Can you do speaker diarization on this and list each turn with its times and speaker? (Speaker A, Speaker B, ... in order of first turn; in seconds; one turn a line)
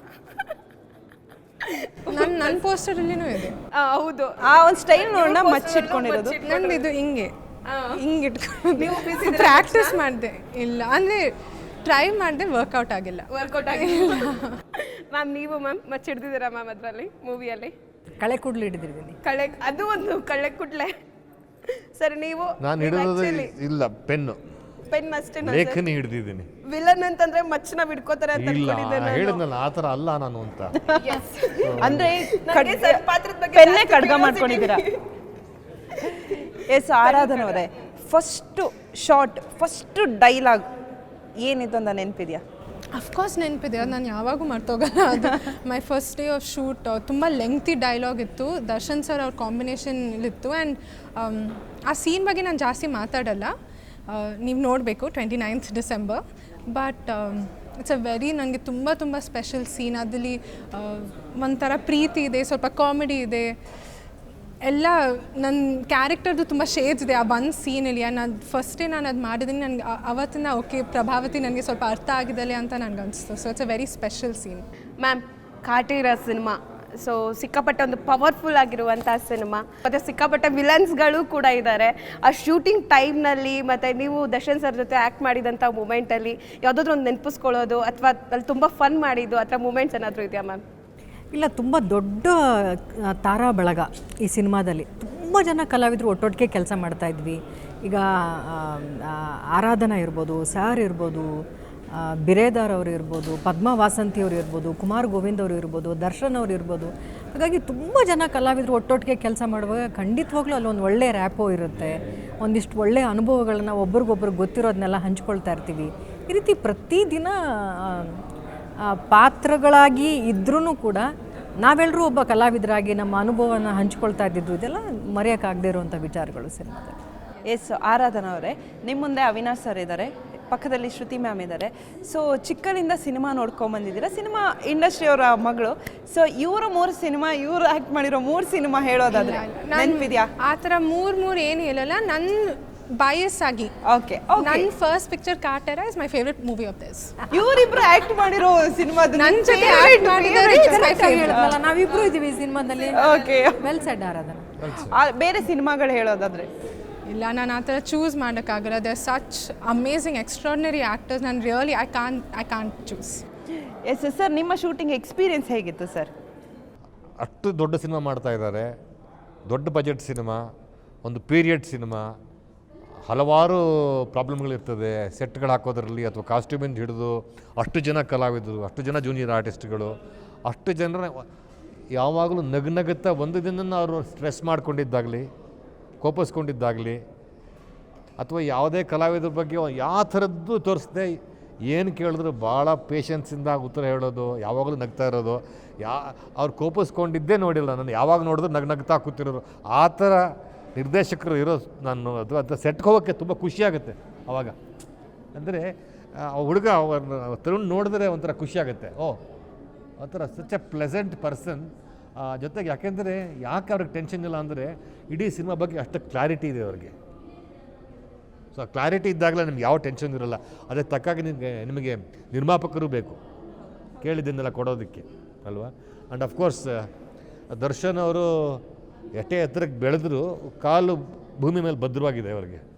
Speaker A: 1.6-2.6
Speaker B: 2.1-3.6
Speaker A: 3.7-6.9
Speaker C: 4.4-6.4
Speaker B: 6.5-7.3
Speaker A: 7.7-8.0
Speaker B: 8.0-11.3
Speaker A: 8.8-10.0
Speaker B: 11.8-14.5
Speaker A: 13.3-17.7
Speaker D: 18.2-19.2
Speaker A: 19.2-20.9
Speaker A: 21.9-23.5
Speaker E: 22.6-24.4
Speaker A: 24.9-25.9
Speaker E: 25.4-26.5
Speaker A: 26.6-29.4
Speaker E: 28.3-30.8
Speaker A: 30.9-35.0
Speaker E: 31.6-32.1
Speaker C: 31.8-34.9
Speaker C: 36.7-40.6
Speaker A: 37.0-37.6
Speaker C: 41.4-42.4
Speaker B: 42.9-53.5
Speaker B: 54.1-63.5
Speaker B: 64.6-74.7
Speaker A: 75.0-90.6
Speaker D: 91.3-101.3
Speaker D: 101.9-118.2
Speaker D: 118.9-121.1
Speaker D: 121.6-127.0
Speaker C: 127.5-140.3
Speaker B: 139.1-143.7
Speaker C: 143.9-144.7
Speaker B: 144.4-147.2
Speaker C: 147.3-151.6
Speaker B: 149.1-151.5
Speaker D: 150.5-154.5
Speaker C: 152.9-153.7
Speaker E: 154.6-155.0
Speaker C: 154.7-156.5
Speaker B: 157.1-163.2
Speaker C: 163.9-166.1
Speaker E: 167.2-168.7
Speaker E: 169.5-170.4
Speaker E: 171.0-172.1
Speaker E: 173.1-181.2
Speaker E: 181.9-185.3
Speaker E: 186.0-187.0
Speaker E: 188.2-200.2
Speaker E: 200.8-204.6
Speaker E: 205.3-209.2
Speaker E: 210.0-216.9
Speaker E: 218.5-223.2
Speaker E: 224.0-226.9
Speaker E: 227.5-228.6
Speaker E: 229.2-232.6